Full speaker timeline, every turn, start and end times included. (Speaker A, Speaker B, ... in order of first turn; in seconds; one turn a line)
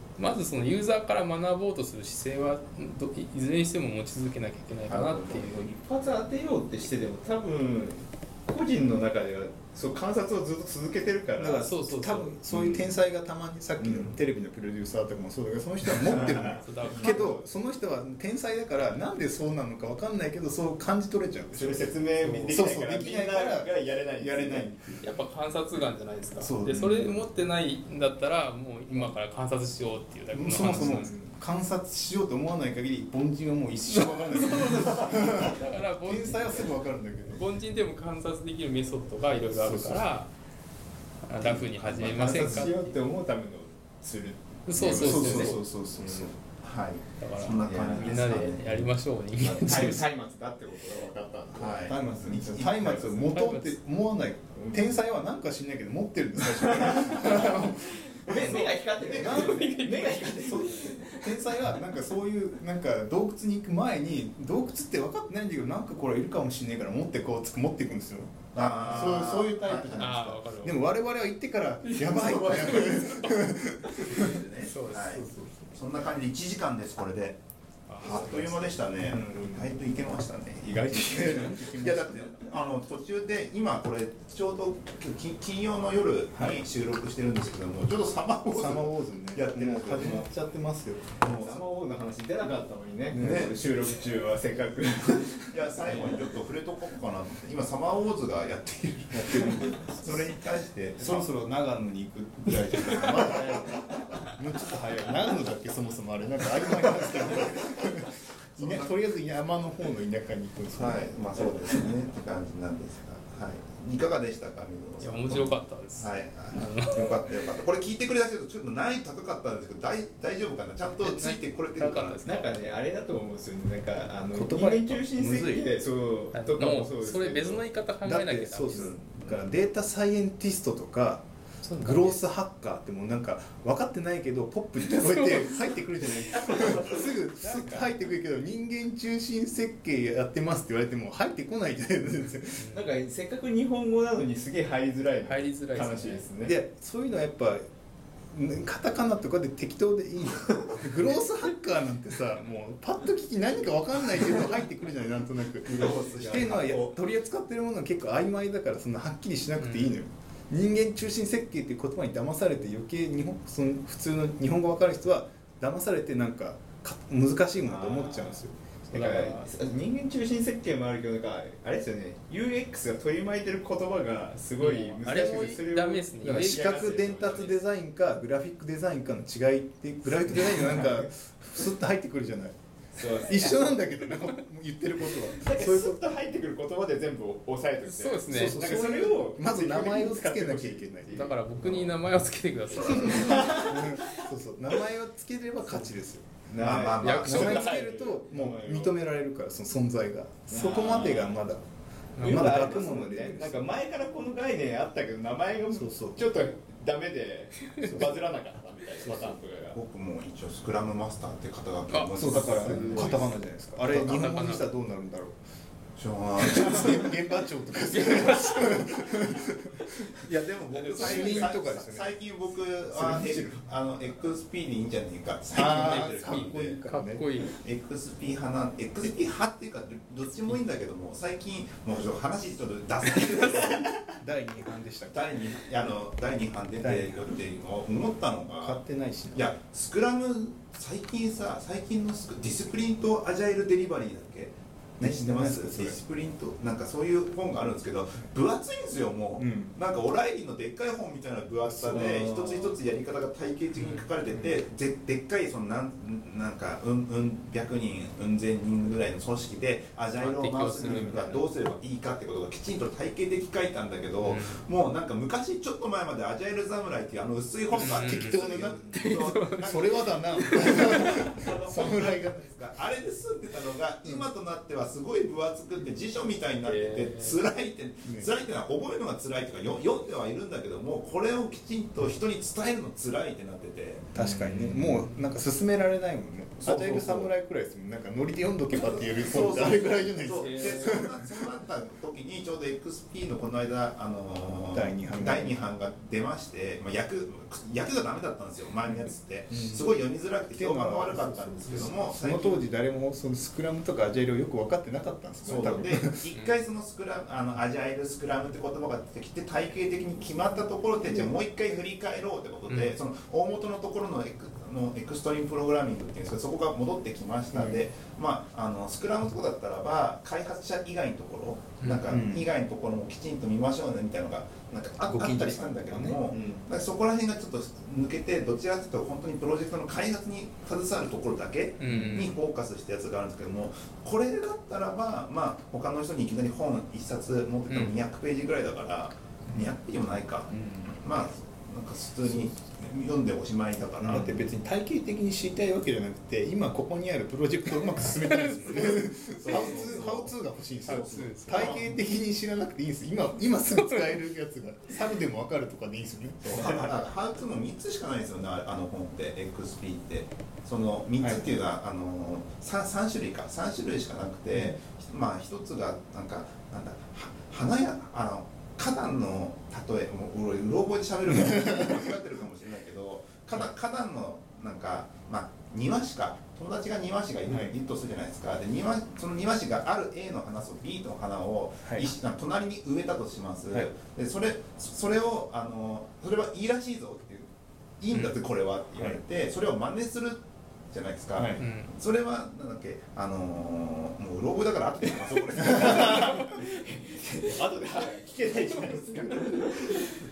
Speaker A: 0.2-5.5
Speaker B: 4.9-5.5
Speaker C: 5.3-11.7
Speaker D: 11.4-21.9
Speaker A: 11.6-12.4
Speaker C: 12.5-12.8
Speaker C: 13.8-14.2
Speaker C: 15.9-17.2
Speaker A: 16.5-17.5
Speaker C: 21.5-24.8
Speaker A: 22.2-22.5
Speaker D: 22.5-25.0
Speaker A: 25.0-31.1
Speaker D: 26.4-27.2
Speaker D: 30.3-37.4
Speaker A: 34.3-40.3
Speaker D: 39.5-40.1
Speaker A: 41.2-43.0
Speaker B: 41.4-42.4
Speaker C: 41.8-46.3
Speaker D: 42.4-42.7
Speaker A: 44.7-45.6
Speaker D: 44.8-46.4
Speaker B: 44.8-45.3
Speaker B: 46.6-48.9
Speaker A: 47.2-50.0
Speaker C: 47.7-48.2
Speaker C: 49.4-51.8
Speaker B: 51.5-53.3
Speaker D: 51.8-59.8
Speaker A: 53.3-53.8
Speaker C: 54.6-54.9
Speaker C: 56.4-61.8
Speaker A: 58.3-61.1
Speaker B: 58.4-59.5
Speaker D: 61.1-75.5
Speaker B: 68.5-70.1
Speaker C: 68.7-69.2
Speaker A: 69.9-70.8
Speaker A: 71.8-75.3
Speaker B: 74.0-77.4
Speaker A: 77.9-78.6
Speaker B: 78.0-90.3
Speaker D: 79.0-79.8
Speaker D: 80.6-82.3
Speaker D: 86.3-86.7
Speaker D: 88.5-91.3
Speaker B: 91.2-91.6
Speaker C: 91.3-96.2
Speaker D: 93.1-93.5
Speaker B: 93.1-93.7
Speaker B: 95.3-101.3
Speaker D: 99.1-100.0
Speaker D: 101.0-111.6
Speaker B: 102.9-103.3
Speaker C: 103.2-104.2
Speaker B: 108.5-109.0
Speaker B: 110.8-122.2
Speaker A: 115.0-117.2
Speaker A: 120.9-122.5
Speaker C: 122.2-127.6
Speaker D: 124.3-125.7
Speaker A: 126.3-129.0
Speaker D: 128.0-131.3
Speaker B: 129.1-129.4
Speaker A: 131.6-132.2
Speaker D: 131.8-142.7
Speaker A: 134.9-135.5
Speaker C: 136.3-137.7
Speaker A: 137.4-137.9
Speaker A: 142.6-142.9
Speaker C: 142.7-146.6
Speaker A: 145.2-146.2
Speaker D: 146.4-147.6
Speaker D: 148.3-168.6
Speaker C: 150.5-150.8
Speaker C: 155.7-156.9
Speaker B: 155.7-156.8
Speaker A: 159.6-160.0
Speaker C: 167.6-177.5
Speaker A: 168.9-169.5
Speaker A: 174.6-177.6
Speaker D: 176.2-182.6
Speaker C: 180.1-181.1
Speaker C: 182.9-183.8
Speaker D: 183.2-186.0
Speaker C: 185.2-192.0
Speaker A: 187.8-188.9
Speaker D: 188.3-191.3
Speaker A: 191.1-193.5
Speaker C: 192.8-194.3
Speaker D: 192.9-201.6
Speaker B: 193.0-193.5
Speaker C: 196.5-198.9
Speaker B: 196.6-197.6
Speaker A: 197.0-197.9
Speaker C: 200.5-201.4
Speaker A: 202.2-202.7
Speaker C: 202.2-209.8
Speaker D: 202.2-203.6
Speaker D: 205.7-206.3
Speaker D: 207.8-208.2
Speaker D: 209.0-209.4
Speaker B: 209.7-213.3
Speaker A: 211.9-213.3
Speaker D: 212.2-215.4
Speaker C: 212.3-213.1
Speaker A: 213.8-214.7
Speaker B: 216.0-217.2
Speaker D: 216.4-220.0
Speaker A: 217.9-218.9
Speaker B: 220.2-226.8
Speaker A: 220.7-221.5
Speaker D: 220.9-222.2
Speaker D: 222.9-223.6
Speaker D: 225.5-227.2
Speaker A: 225.6-227.6
Speaker B: 227.5-234.1
Speaker D: 234.1-235.4
Speaker B: 235.1-238.8
Speaker D: 236.8-237.4
Speaker D: 238.6-239.5
Speaker B: 239.3-284.1
Speaker D: 245.0-246.0
Speaker D: 249.4-249.7
Speaker D: 251.7-252.4
Speaker A: 253.8-254.1
Speaker D: 254.3-254.6
Speaker A: 260.2-261.5
Speaker D: 260.8-261.3
Speaker A: 264.2-264.6
Speaker A: 267.7-269.7
Speaker D: 267.8-272.4
Speaker A: 270.4-271.2
Speaker A: 276.6-277.4
Speaker D: 284.1-291.4
Speaker C: 284.2-284.8
Speaker B: 286.6-287.3
Speaker B: 288.7-302.7
Speaker A: 290.3-291.0
Speaker D: 294.7-295.6
Speaker D: 299.5-299.8
Speaker D: 300.5-306.2
Speaker B: 305.4-344.3
Speaker D: 311.1-311.3
Speaker A: 312.7-312.9
Speaker D: 317.5-317.8
Speaker A: 321.8-322.1
Speaker D: 322.1-322.5
Speaker D: 325.0-326.2
Speaker C: 326.3-326.6
Speaker A: 331.8-332.4
Speaker D: 331.9-332.2
Speaker A: 337.7-337.9
Speaker C: 340.5-340.9
Speaker D: 344.0-356.8
Speaker C: 344.0-344.5
Speaker A: 348.2-349.6
Speaker B: 348.6-350.3
Speaker A: 350.9-351.8
Speaker B: 350.9-352.0
Speaker A: 353.8-354.2
Speaker B: 356.4-396.5
Speaker D: 361.2-361.4
Speaker D: 371.3-371.9
Speaker D: 377.5-377.7
Speaker D: 381.8-382.1
Speaker D: 391.4-391.6
Speaker A: 391.6-391.9
Speaker D: 395.6-396.4
Speaker C: 395.8-400.2
Speaker A: 396.0-396.7